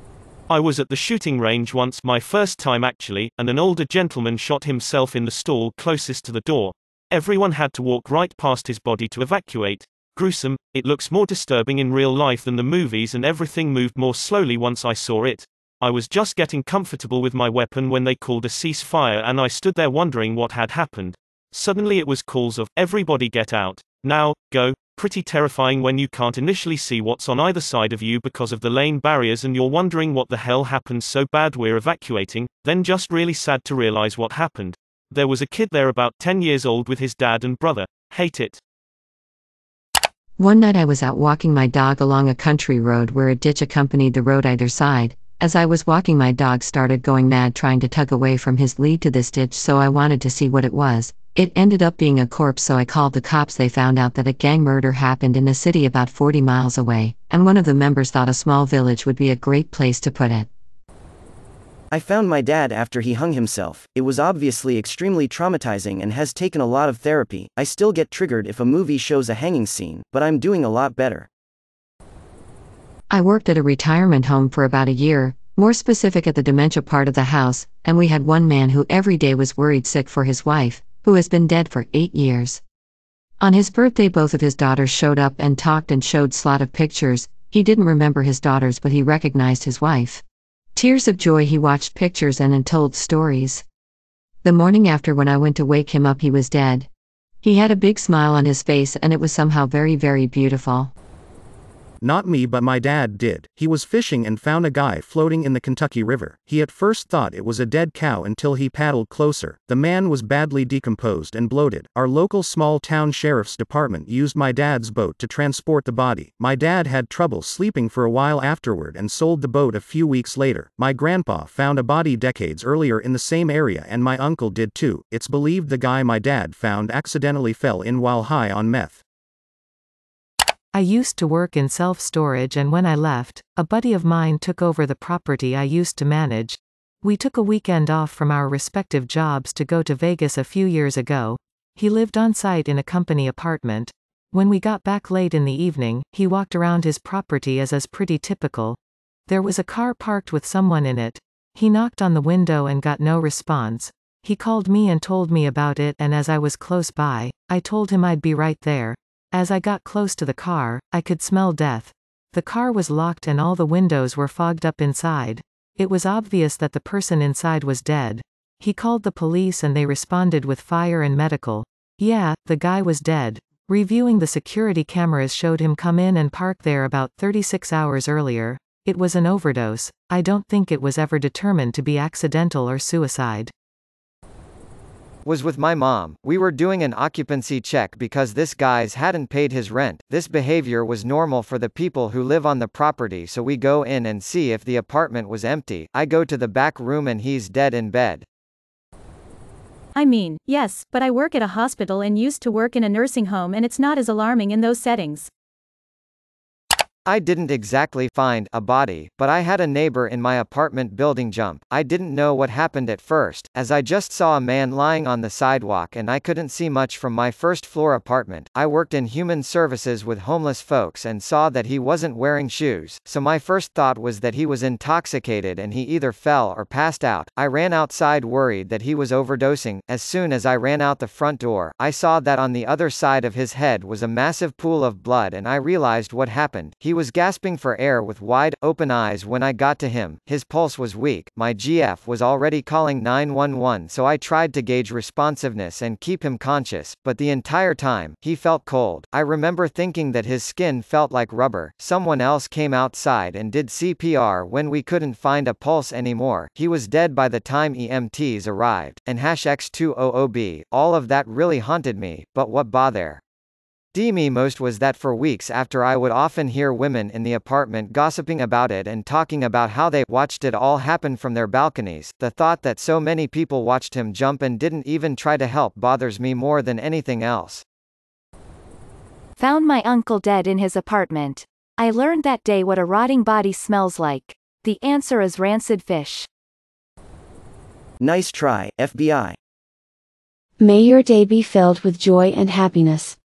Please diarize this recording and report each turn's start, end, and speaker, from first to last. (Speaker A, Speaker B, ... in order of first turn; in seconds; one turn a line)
Speaker A: 0.5-38.6
Speaker B: 40.4-60.5
Speaker C: 61.9-71.3
Speaker B: 73.1-82.6
Speaker B: 83.4-90.2
Speaker B: 90.7-93.6
Speaker B: 94.4-96.9
Speaker B: 97.4-100.9
Speaker D: 102.0-129.0
Speaker E: 130.7-183.5
Speaker F: 185.2-198.2
Speaker G: 199.9-205.3
Speaker F: 207.1-263.2
Speaker F: 263.9-277.6
Speaker H: 279.4-286.3
Speaker C: 288.0-289.4
Speaker I: 290.6-293.2